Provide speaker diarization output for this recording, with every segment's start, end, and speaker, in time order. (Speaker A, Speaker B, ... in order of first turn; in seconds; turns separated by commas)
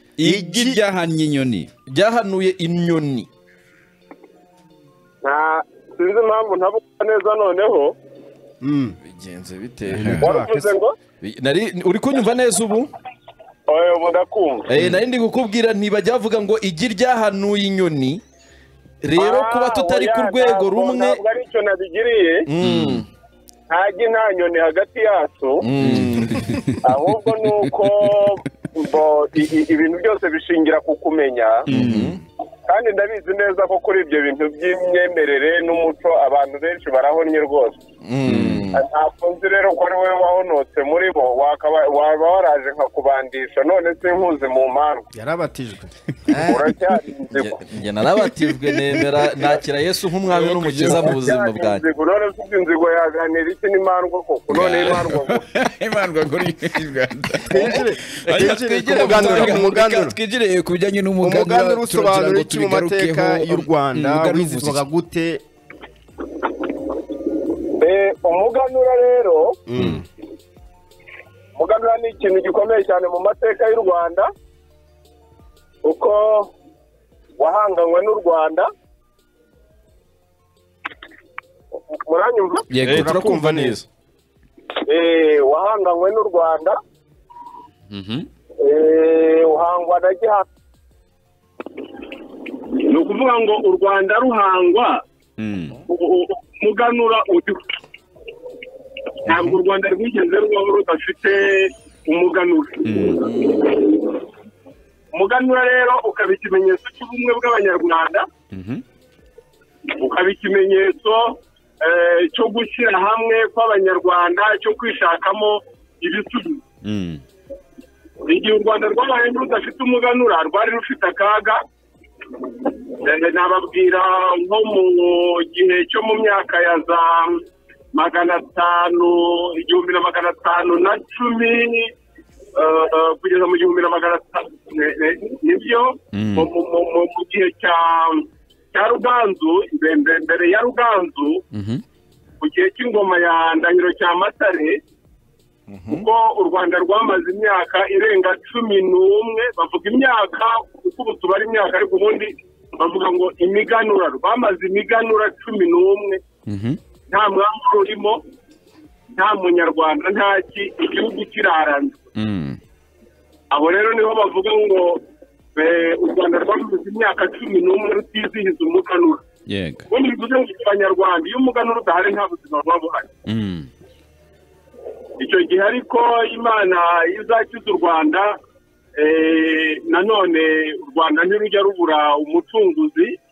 Speaker A: 0.2-0.7, Speaker B: 0.2-1.7, Speaker C: 0.3-0.8, Speaker A: 1.9-3.3, Speaker D: 5.2-8.0, Speaker C: 8.6-9.0, Speaker A: 9.0-10.2, Speaker B: 9.9-10.2, Speaker C: 10.0-10.7, Speaker D: 10.2-11.0, Speaker A: 11.2-12.9, Speaker D: 13.7-14.7, Speaker A: 14.7-18.2, Speaker A: 19.0-21.2, Speaker D: 19.2-22.5, Speaker A: 22.5-23.1, Speaker B: 22.6-23.1, Speaker D: 23.7-25.7, Speaker A: 25.6-26.5, Speaker B: 25.8-26.9, Speaker D: 26.8-31.7, Speaker B: 31.7-32.2, Speaker A: 31.7-32.2, Speaker D: 32.7-37.8, Speaker A: 38.0-38.8, Speaker B: 38.2-38.7, Speaker D: 38.7-45.1, Speaker C: 45.1-46.5, Speaker A: 46.3-46.6, Speaker D: 46.4-47.6, Speaker A: 47.3-51.8, Speaker B: 50.3-51.2, Speaker D: 50.8-55.4, Speaker B: 54.5-64.9, Speaker C: 57.5-60.2, Speaker A: 57.5-60.0, Speaker C: 61.2-65.4, Speaker D: 67.8-69.6, Speaker C: 69.7-70.1, Speaker D: 71.6-74.3, Speaker D: 75.8-76.5, Speaker D: 77.4-78.7, Speaker D: 81.8-82.7, Speaker B: 82.7-83.3, Speaker C: 82.8-83.8, Speaker A: 82.8-83.9, Speaker D: 84.9-86.8, Speaker B: 87.9-88.3, Speaker D: 88.6-90.5, Speaker D: 92.7-95.0, Speaker B: 95.4-95.8, Speaker D: 95.9-97.6, Speaker D: 99.3-104.2, Speaker B: 99.3-99.5, Speaker B: 102.8-103.3, Speaker A: 103.2-103.7, Speaker D: 105.1-108.3, Speaker B: 108.5-108.8, Speaker D: 109.9-116.6, Speaker B: 116.8-117.2, Speaker D: 118.2-121.6, Speaker D: 122.6-131.9, Speaker D: 132.6-141.4, Speaker B: 136.1-136.5, Speaker B: 141.5-141.8, Speaker D: 142.4-144.8, Speaker A: 145.7-146.1, Speaker D: 145.9-156.2, Speaker B: 156.5-156.8, Speaker D: 157.1-158.2, Speaker D: 159.2-162.0, Speaker B: 162.2-162.6, Speaker D: 163.5-165.0, Speaker D: 165.6-169.2, Speaker B: 169.5-169.9, Speaker D: 169.9-173.1, Speaker B: 173.3-173.7, Speaker D: 175.2-178.3, Speaker D: 178.9-183.2